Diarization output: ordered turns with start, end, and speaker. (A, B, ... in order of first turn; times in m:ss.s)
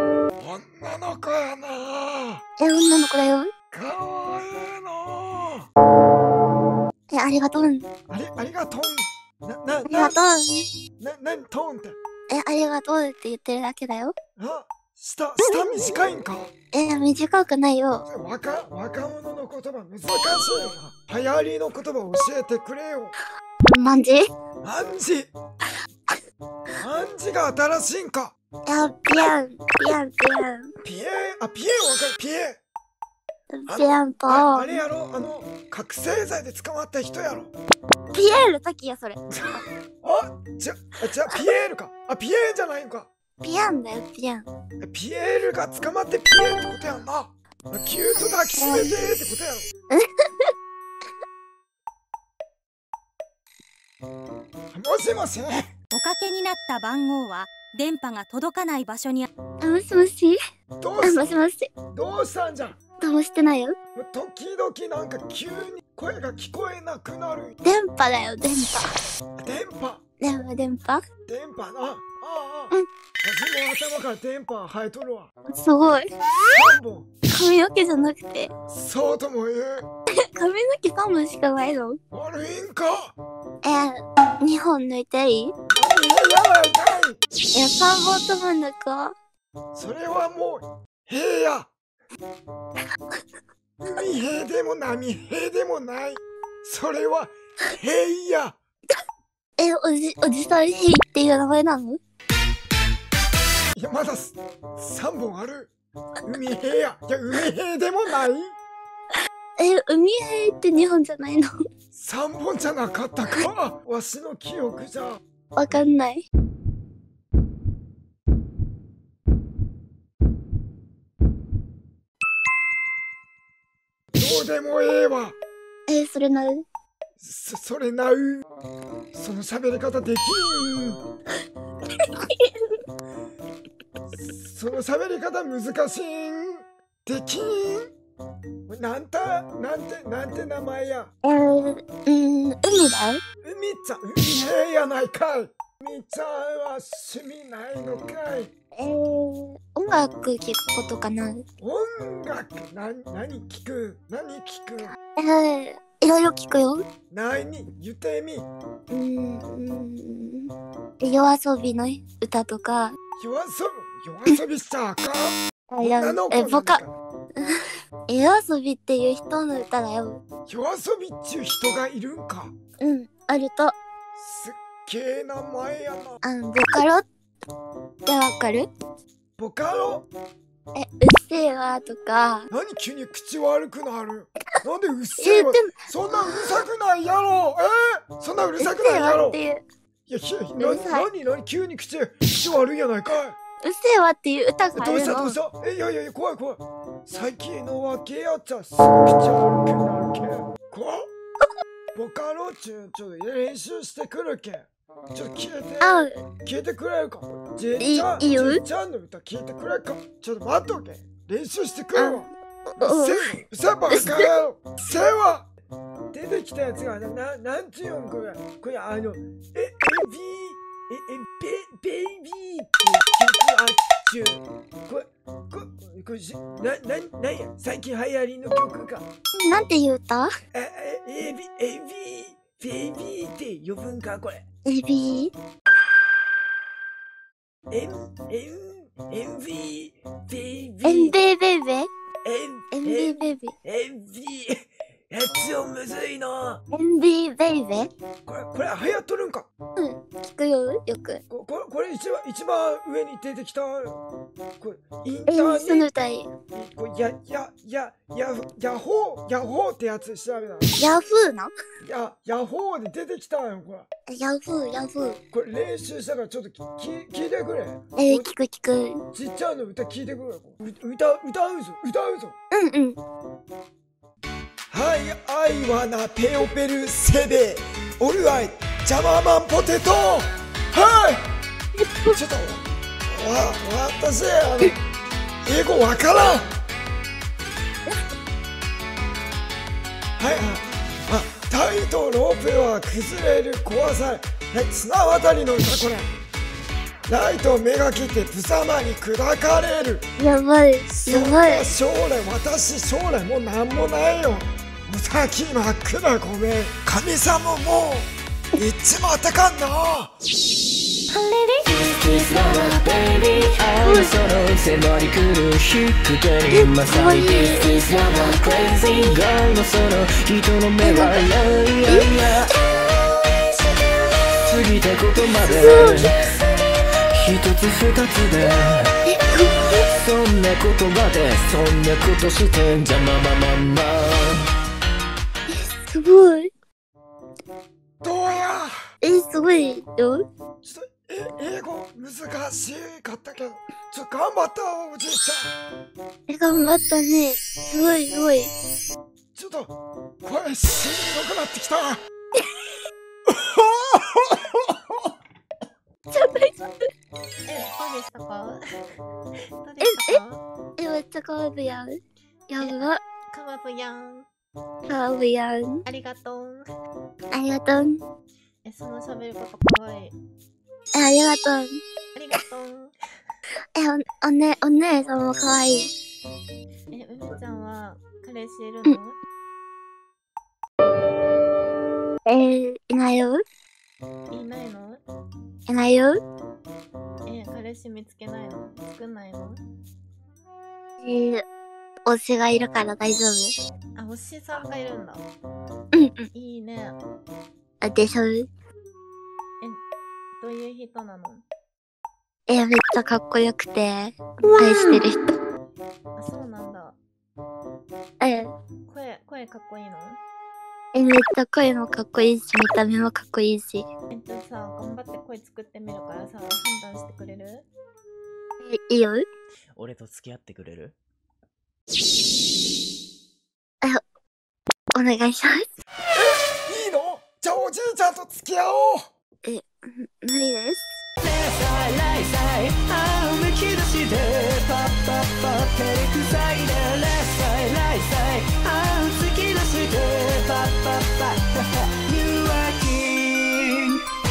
0:00.4-0:02.4 A
0:02.6-0:03.5 B
0:03.7-0:05.7 A
0:07.1-0:07.9 B
0:08.1-0:10.2 A
0:09.8-0:10.6 B
0:11.0-0:12.0 A
0:12.3-0:14.2 B
0:14.4-0:16.5 A
0:15.5-0:15.8 B
0:16.7-0:18.1 B
0:18.1-0:23.1 A
0:23.7-0:24.2 B
0:24.6-0:25.3 A
0:26.8-0:28.3 A
0:28.7-0:30.7 B
0:30.8-0:32.6 A
0:33.5-0:34.9 B
0:33.7-0:37.5 A
0:38.1-0:39.6 B
0:39.3-0:43.1 A
0:43.4-0:44.5 B
0:44.8-0:49.7 A
0:48.6-0:49.0 B
0:49.9-0:50.5 B
0:54.7-0:55.8 A
0:55.9-0:59.3 C
0:59.6-1:00.4 B
1:00.8-1:01.4 A
1:01.0-1:01.7 B
1:01.9-1:02.8 A
1:02.9-1:03.8 B
1:04.0-1:07.6 A
1:07.6-1:08.8 B
1:09.4-1:10.0 A
1:10.2-1:11.1 B
1:11.3-1:12.7 A
1:13.2-1:15.3 A
1:15.5-1:16.1 B
1:16.5-1:17.1 A
1:17.3-1:18.5 B
1:18.7-1:19.9 A
1:20.4-1:22.0 B
1:22.1-1:23.2 A
1:23.6-1:25.6 B
1:25.7-1:27.2 A
1:27.5-1:29.1 B
1:29.7-1:31.7 A
1:33.8-1:38.6 A
1:39.6-1:42.0 B
1:43.8-1:45.7 A
1:46.3-1:48.6 A
1:49.6-1:51.5 B
1:51.9-1:55.2 A
1:55.6-1:56.3 B
2:04.1-2:05.4 A
2:05.9-2:06.6 B
2:07.2-2:08.4 A
2:09.2-2:11.0 A
2:12.0-2:12.7 B
2:14.3-2:17.9 A
2:18.7-2:21.1 A
2:21.2-2:23.2 B
2:23.4-2:28.5 A
2:28.8-2:31.5 B
2:31.6-2:35.0 A
2:34.8-2:36.8 B
2:37.1-2:38.5 A
2:38.9-2:40.5 B
2:41.0-2:43.0 B
2:43.2-2:46.9 A
2:45.7-2:46.8 B
2:48.1-2:50.2 B
2:50.5-2:52.5 A
2:52.8-2:53.8 B
2:54.2-2:56.2 A
2:56.2-2:57.0 B
2:58.1-2:58.7 B
2:59.4-3:00.1 A
3:00.8-3:02.5 B
3:02.5-3:09.4 A
3:05.2-3:06.6 B
3:08.6-3:09.6 B
3:10.1-3:13.4 A
3:10.6-3:11.1 B
3:13.6-3:15.4 B
3:14.7-3:21.1 A
3:21.9-3:32.3 A
3:25.8-3:26.1 B
3:27.8-3:28.6 B
3:32.0-3:34.3 B
3:32.8-3:35.5 A
3:36.1-3:49.1 A
3:49.4-3:50.3 B
3:50.5-3:54.4 A
3:52.4-3:52.8 D
3:54.6-3:55.3 B
3:57.7-4:00.8 A
4:00.3-4:01.1 D
4:00.8-4:01.9 B
4:02.3-4:02.7 D
4:02.3-4:03.2 A
4:02.7-4:03.5 B
4:03.6-4:04.6 D
4:03.9-4:04.4 A
4:05.1-4:06.6 D
4:06.7-4:07.9 B
4:08.3-4:09.5 A
4:09.8-4:11.2 B
4:11.3-4:14.0 A
4:14.6-4:15.9 A
4:15.3-4:16.3 B
4:16.5-4:20.8 A
4:20.8-4:21.5 B
4:21.8-4:23.9 A
4:24.1-4:25.2 B
4:25.3-4:28.3 A
4:28.0-4:29.0 B
4:29.1-4:32.4 A
4:32.5-4:33.0 B
4:34.7-4:41.2 A
4:41.8-4:42.2 B
4:42.1-4:44.7 A
4:45.4-4:46.5 A
4:50.2-4:56.1 A
4:57.1-5:00.0 A
5:00.2-5:01.7 B
5:00.9-5:10.1 A
5:11.7-5:22.5 D
5:13.6-5:14.2 B
5:16.5-5:17.8 B
5:20.8-5:21.2 B
5:24.4-5:26.1 D
5:25.2-5:26.1 B
5:27.1-5:28.9 D
5:29.1-5:29.8 B
5:29.8-5:34.4 D
5:35.5-5:36.5 B
5:38.0-5:38.7 A
5:39.0-5:40.2 B
5:40.6-5:45.5 A
5:46.3-5:48.5 B
5:49.4-5:52.0 A
5:53.3-5:54.7 A
5:56.1-5:56.6 B
5:57.5-5:58.6 E
5:59.6-6:00.4 E
5:59.8-6:00.2 B
6:00.8-6:02.0 B
6:02.5-6:03.0 B
6:03.3-6:04.3 E
6:04.9-6:05.8 B
6:05.9-6:06.6 E
6:07.3-6:08.0 B
6:08.6-6:10.2 E
6:11.0-6:11.8 B
6:12.2-6:12.9 E
6:13.8-6:15.9 B
6:16.9-6:19.2 E
6:22.3-6:23.4 B
6:24.3-6:25.0 E
6:25.7-6:26.2 B
6:27.2-6:29.6 E
6:31.0-6:31.4 B
6:32.1-6:33.6 B
6:34.0-6:35.2 E
6:35.9-6:36.3 B
6:36.3-6:37.0 E
6:37.8-6:38.5 B
6:40.4-6:41.4 E
6:42.5-6:45.2 B
6:46.2-6:47.0 E
6:48.2-6:48.5 B
6:48.9-6:50.2 E
6:50.9-6:53.9 B
6:54.1-6:57.7 E
6:58.6-6:59.2 B
6:59.8-7:00.9 D
7:04.9-7:05.7 B
7:06.2-7:09.1 A
7:09.4-7:11.0 B
7:11.2-7:24.0 D